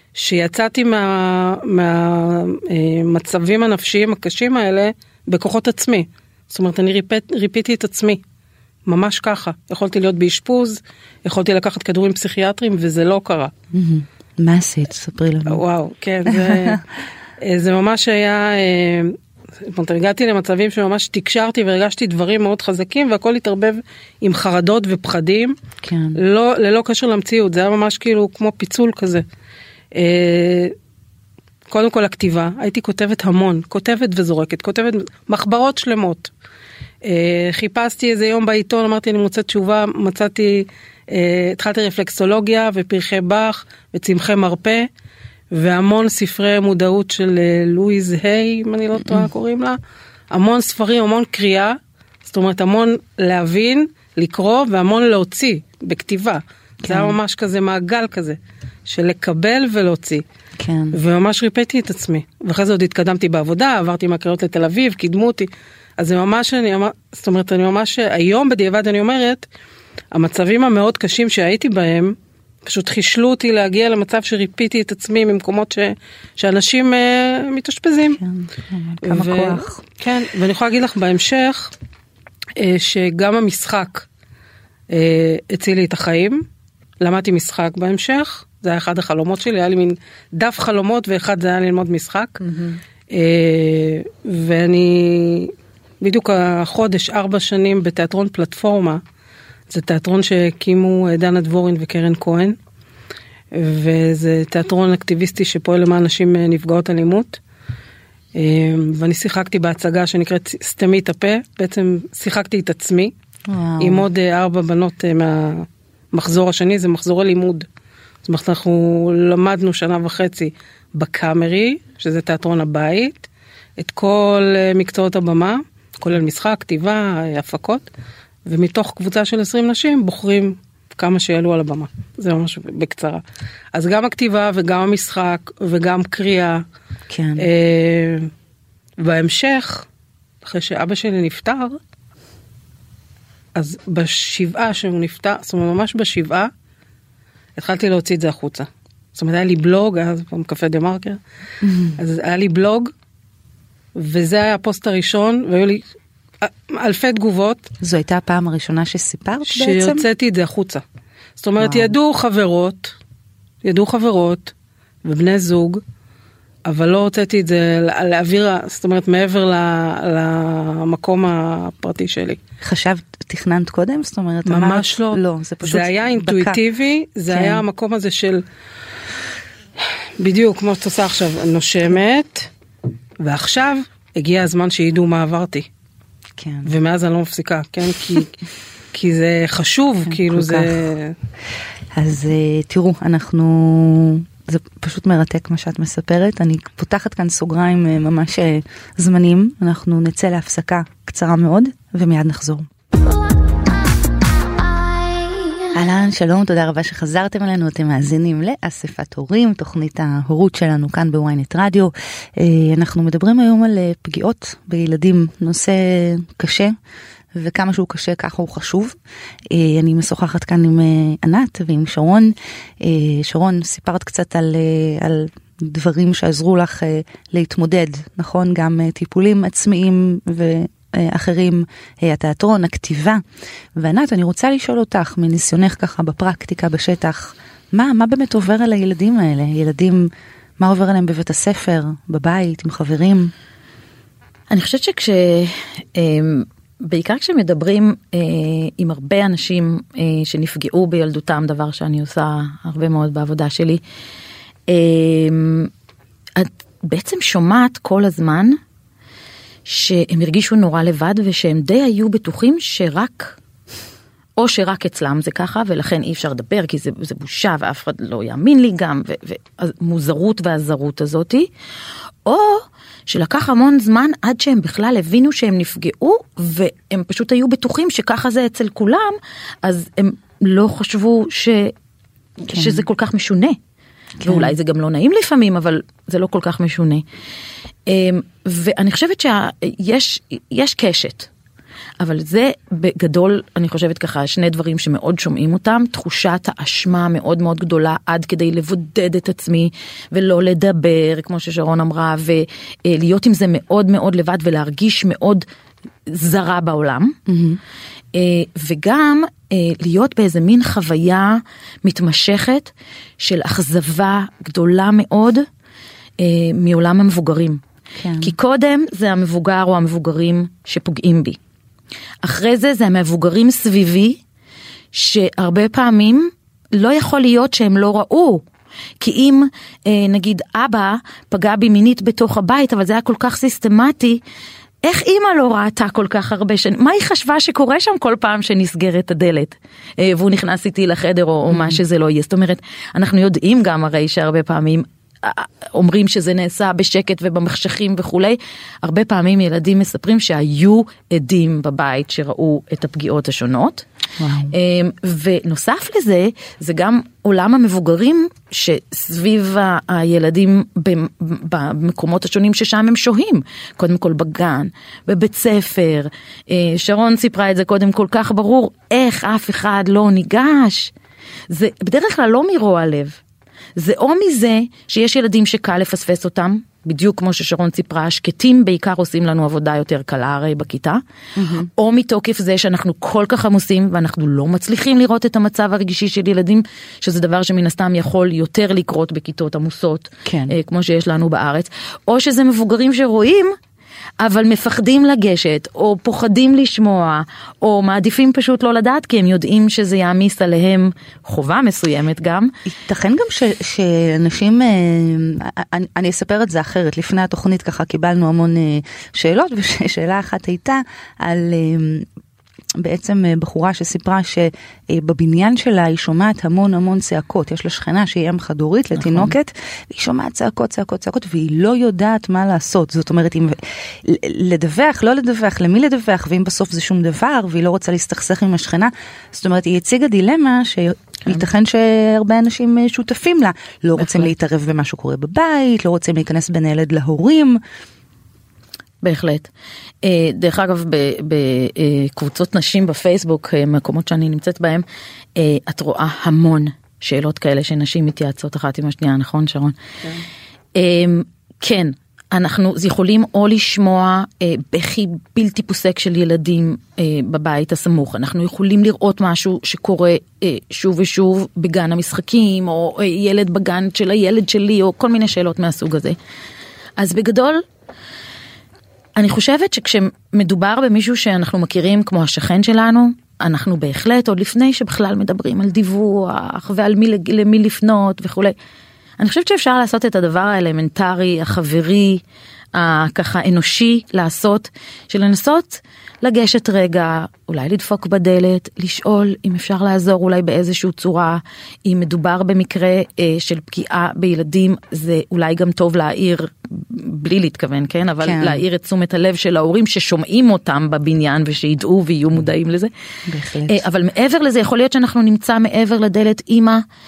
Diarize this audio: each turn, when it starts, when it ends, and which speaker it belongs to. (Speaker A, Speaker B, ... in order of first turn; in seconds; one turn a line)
Speaker A: 0.1-8.2
Speaker A: 8.8-13.5
Speaker B: 13.7-15.6
Speaker A: 15.5-16.8
Speaker B: 16.3-16.8
Speaker A: 17.4-25.5
Speaker B: 25.8-26.2
Speaker A: 26.1-29.2
Speaker A: 29.9-30.7
Speaker A: 31.7-36.3
Speaker A: 37.0-44.9
Speaker A: 45.5-49.8
Speaker A: 50.3-60.2
Speaker B: 56.8-57.2
Speaker B: 60.6-61.0
Speaker A: 60.9-69.5
Speaker A: 70.1-78.2
Speaker B: 78.1-79.8
Speaker A: 79.0-81.7
Speaker A: 82.6-84.1
Speaker A: 84.9-86.4
Speaker A: 87.0-92.4
Speaker A: 93.1-99.0
Speaker A: 99.7-102.5
Speaker A: 103.5-107.4
Speaker A: 108.3-113.1
Speaker B: 113.5-114.0
Speaker A: 113.8-117.7
Speaker A: 118.2-127.8
Speaker A: 128.4-133.2
Speaker A: 133.7-136.6
Speaker B: 137.1-137.5
Speaker A: 137.4-138.3
Speaker A: 139.0-139.8
Speaker A: 140.4-141.8
Speaker A: 143.5-146.5
Speaker A: 147.6-151.2
Speaker B: 151.6-152.0
Speaker A: 151.9-152.9
Speaker A: 153.9-155.8
Speaker A: 156.4-157.7
Speaker B: 157.8-160.0
Speaker A: 159.4-160.8
Speaker A: 161.4-162.9
Speaker B: 161.6-161.9
Speaker A: 163.6-164.5
Speaker A: 165.0-165.8
Speaker A: 166.7-172.4
Speaker B: 172.6-176.6
Speaker A: 174.4-178.4
Speaker B: 177.3-177.6
Speaker A: 180.2-182.5
Speaker A: 183.2-185.7
Speaker B: 186.4-186.7
Speaker A: 186.6-188.3
Speaker A: 188.9-191.1
Speaker B: 190.1-190.9
Speaker B: 191.9-202.7
Speaker B: 205.7-216.7
Speaker B: 217.3-219.0
Speaker B: 219.5-233.2
Speaker B: 233.7-243.3
Speaker C: 244.5-253.8
Speaker C: 254.7-255.7
Speaker C: 256.4-258.6
Speaker C: 259.6-263.4
Speaker C: 264.4-271.5
Speaker C: 272.2-281.7
Speaker C: 282.4-283.6
Speaker B: 282.5-282.8
Speaker B: 284.2-284.5
Speaker C: 284.2-287.0
Speaker C: 287.9-291.3
Speaker C: 292.0-305.4
Speaker C: 306.1-307.2
Speaker B: 307.3-307.6
Speaker C: 308.1-315.4
Speaker C: 316.2-317.6
Speaker B: 318.0-318.3
Speaker C: 318.2-321.4
Speaker C: 322.2-324.2
Speaker C: 324.9-328.4
Speaker C: 329.0-334.2
Speaker C: 334.8-353.8
Speaker B: 341.5-341.8
Speaker B: 354.2-354.5
Speaker C: 354.5-370.9
Speaker C: 371.5-373.2
Speaker C: 373.8-381.0
Speaker B: 381.4-381.7
Speaker C: 381.8-393.5
Speaker B: 390.2-390.5
Speaker C: 394.2-402.5
Speaker B: 402.7-412.1
Speaker B: 412.8-437.6
Speaker C: 419.0-419.3
Speaker C: 434.0-434.3
Speaker C: 439.0-439.5
Speaker C: 440.0-444.8
Speaker C: 445.4-449.8
Speaker C: 450.7-466.2
Speaker C: 467.0-467.6
Speaker C: 469.1-478.5
Speaker C: 479.2-482.2
Speaker C: 482.7-502.9
Speaker B: 498.2-498.6
Speaker B: 503.3-503.8
Speaker C: 503.7-506.8